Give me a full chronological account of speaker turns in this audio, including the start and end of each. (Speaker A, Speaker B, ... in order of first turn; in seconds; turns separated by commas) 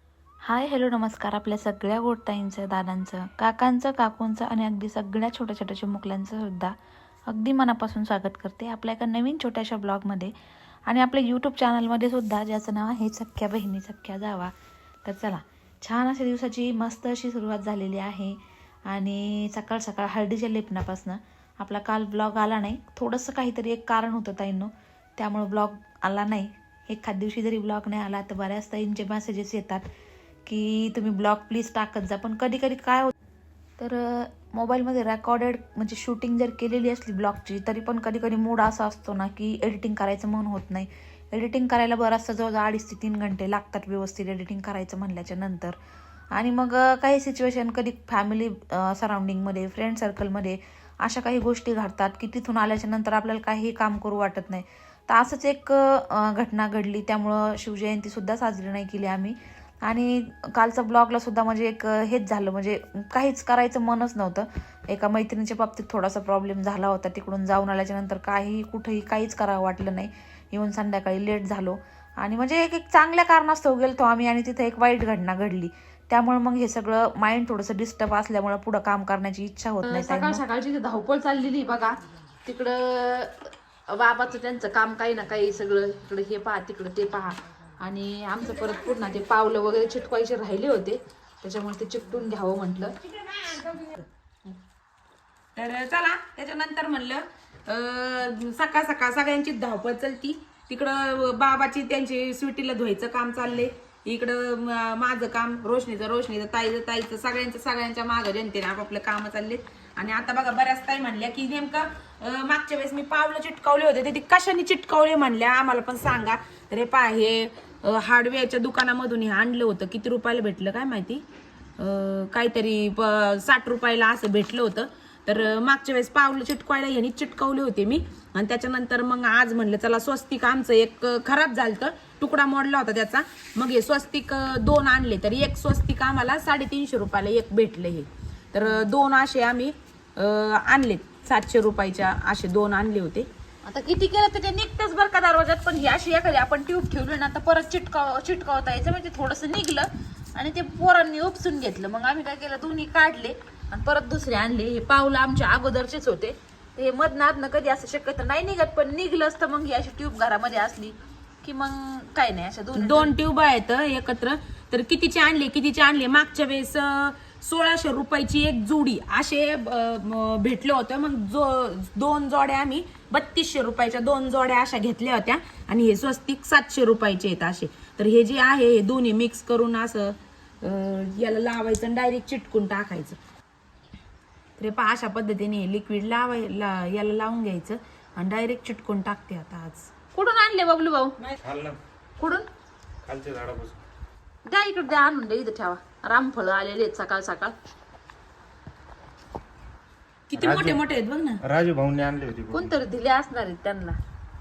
Speaker A: 0.5-6.7, Speaker A: 7.3-10.3, Speaker A: 10.9-14.5, Speaker A: 15.1-29.9, Speaker A: 30.4-33.1, Speaker A: 33.8-45.8, Speaker A: 46.3-80.4, Speaker B: 79.8-92.9, Speaker C: 93.2-93.9, Speaker C: 95.6-121.2, Speaker C: 121.8-143.3, Speaker B: 143.7-163.1, Speaker C: 162.7-183.2, Speaker C: 184.6-189.9, Speaker B: 190.1-191.2, Speaker D: 191.4-191.8, Speaker B: 192.2-192.5, Speaker D: 193.1-193.8, Speaker B: 194.5-197.6, Speaker C: 200.3-201.4, Speaker D: 200.4-200.8, Speaker D: 201.4-202.8, Speaker B: 202.5-204.0